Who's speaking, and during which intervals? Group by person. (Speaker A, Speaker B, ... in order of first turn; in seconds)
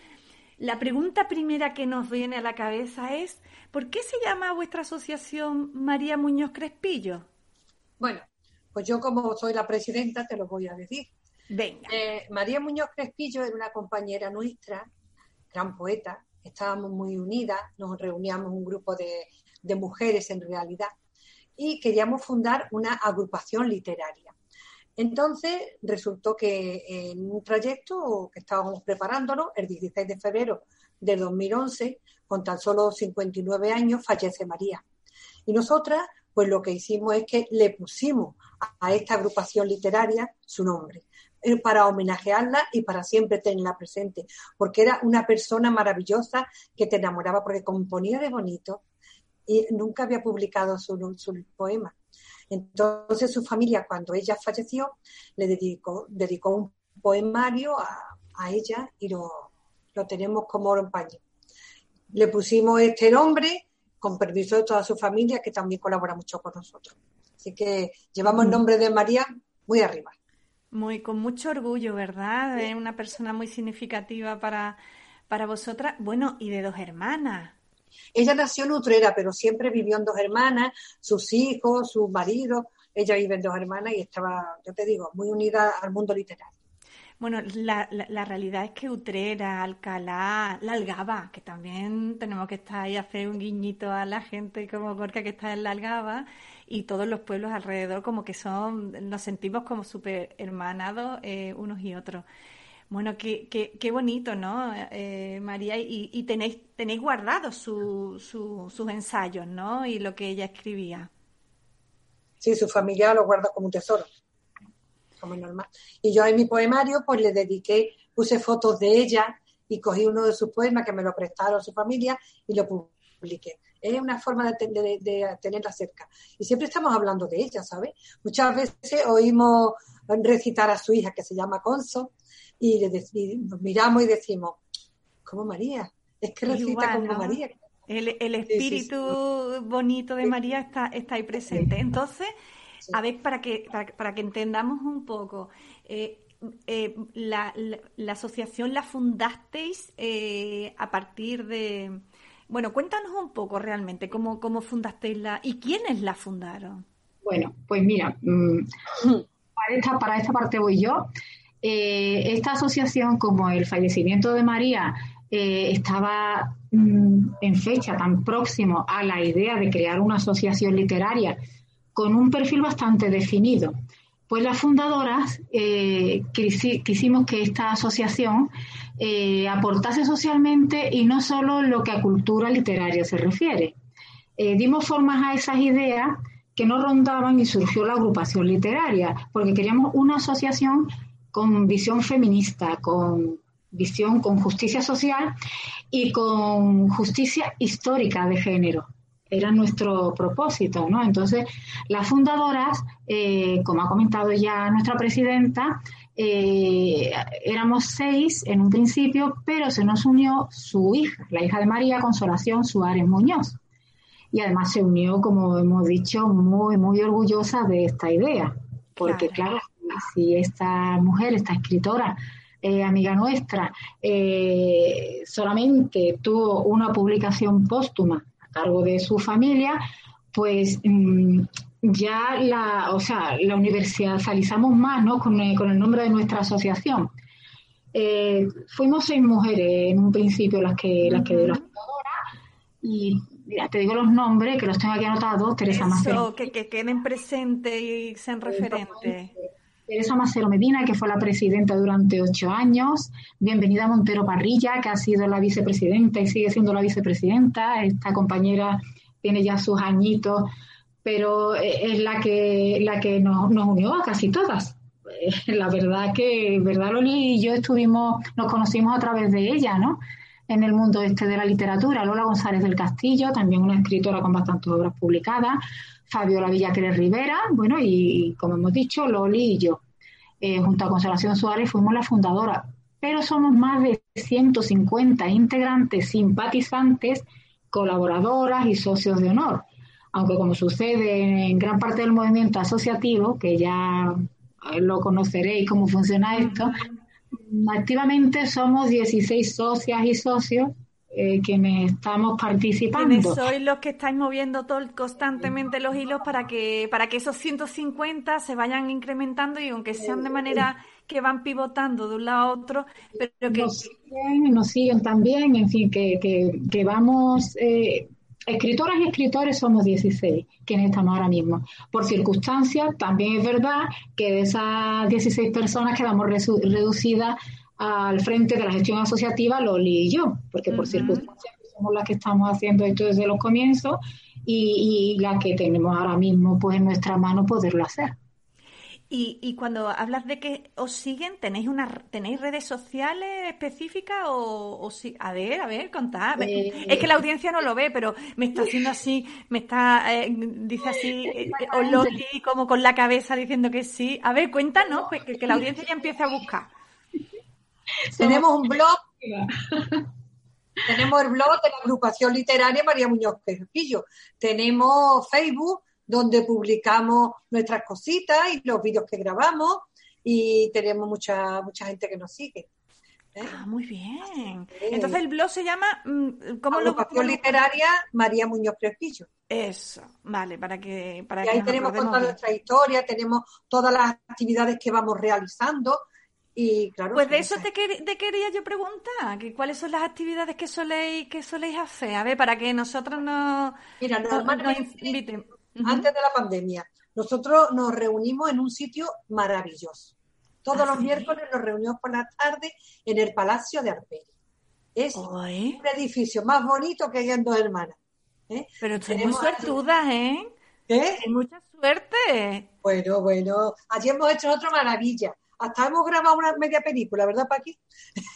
Speaker A: 0.6-7.2, 11.5-11.9, 70.7-74.8, 75.3-77.5, 87.2-102.2, 102.9-111.1, 136.4-142.3, 142.9-156.8, 219.0-219.4, 241.0-241.6, 245.7-249.3, 296.3-297.0, 302.9-313.9, 330.7-331.3, 339.1-356.7, 373.4-377.6, 379.5-382.3, 387.1-393.8, 394.3-396.1, 400.7-401.4, 405.1-405.8, 408.8-410.5, 411.2-412.7
Speaker B: 8.7-11.1, 11.9-14.9, 15.5-20.9, 21.6-24.3, 25.0-34.8, 35.5-48.8, 49.5-51.9, 52.5-61.2, 62.1-70.1, 78.1-86.5, 112.4-114.1, 115.2-134.6, 135.2-137.5, 138.5-139.1, 358.2-359.0, 360.9-372.7, 374.7-375.2, 376.7-379.3, 381.4-386.0, 386.6-387.6, 394.0-395.2, 395.8-400.1, 400.6-404.3, 404.9-405.2, 405.8-408.0, 408.5-409.7, 410.9-411.2, 412.8-417.8
Speaker C: 157.2-158.7, 159.6-161.1, 161.6-171.4, 171.9-173.7, 174.3-183.7, 184.4-195.3, 195.9-213.6, 214.3-229.8, 230.3-237.1, 237.9-242.2, 242.8-246.5, 248.4-260.5, 261.0-279.8, 280.4-296.8, 297.3-303.4, 313.5-338.2, 346.4-347.1, 351.2-352.2, 358.1-358.5, 359.2-360.1